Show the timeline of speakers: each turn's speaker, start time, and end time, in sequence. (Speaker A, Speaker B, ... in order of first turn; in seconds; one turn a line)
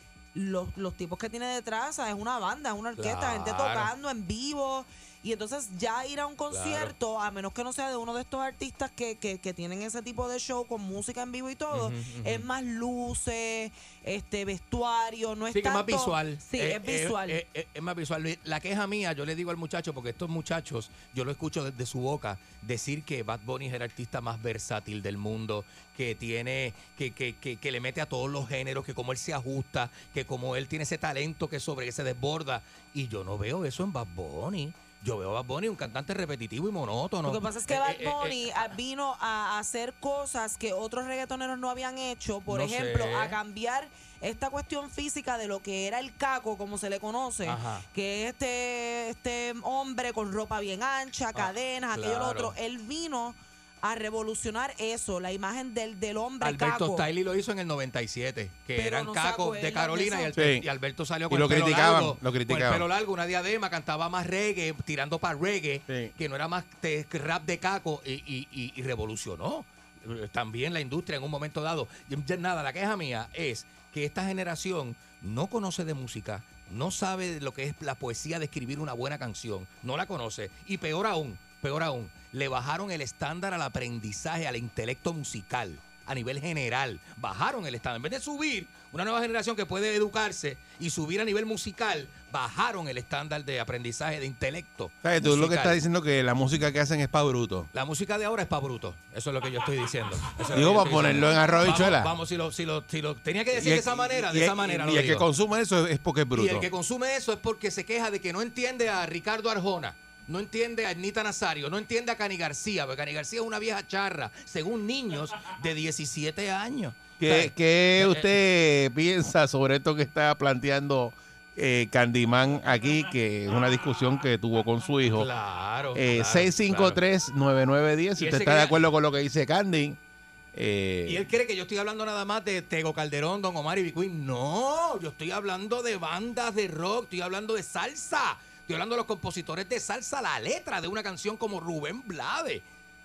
Speaker A: 0.3-17.4
Speaker B: 3.0-3.9
Speaker B: 6.5-6.9
Speaker B: 11.7-12.5
Speaker B: 15.5-38.6
Speaker A: 37.2-57.1
Speaker B: 42.5-43.4
Speaker B: 47.5-47.9
Speaker B: 51.4-52.5
Speaker B: 56.4-95.8
Speaker A: 58.8-60.3
Speaker C: 60.3-60.6
Speaker C: 61.3-62.9
Speaker C: 95.0-97.7
Speaker B: 97.7-105.3
Speaker C: 100.5-102.1
Speaker C: 103.5-106.7
Speaker B: 106.3-118.3
Speaker C: 117.2-125.3
Speaker B: 125.2-127.0
Speaker C: 126.0-130.0
Speaker B: 128.2-128.8
Speaker C: 130.5-131.3
Speaker B: 131.1-142.6